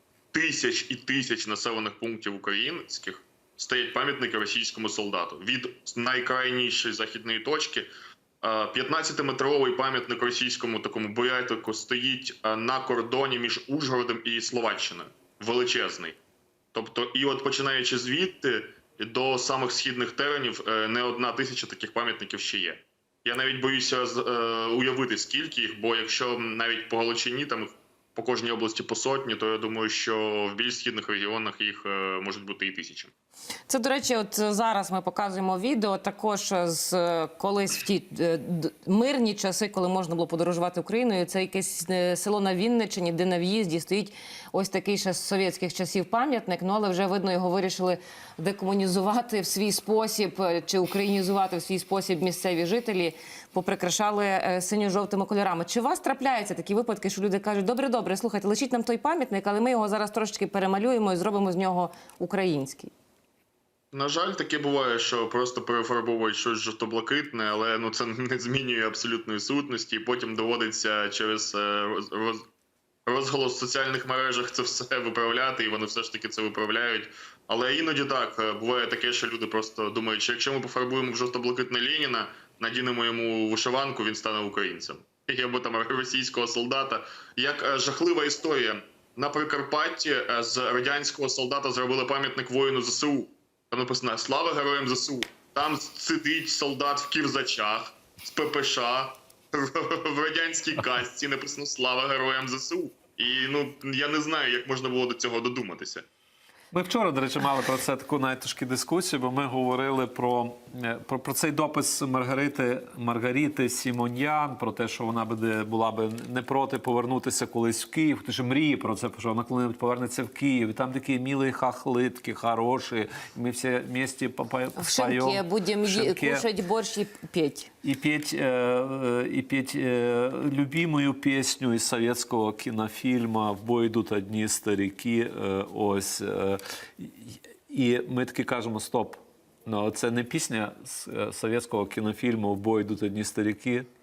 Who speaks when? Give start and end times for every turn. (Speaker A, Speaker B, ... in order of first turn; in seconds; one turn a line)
Speaker A: 0.3-7.9
Speaker A: 8.4-16.2
Speaker A: 16.7-33.1
Speaker B: 33.7-62.9
Speaker A: 63.9-72.5
Speaker A: 73.1-106.1
Speaker C: 106.7-126.5
Speaker B: 124.8-127.7
Speaker C: 127.8-143.9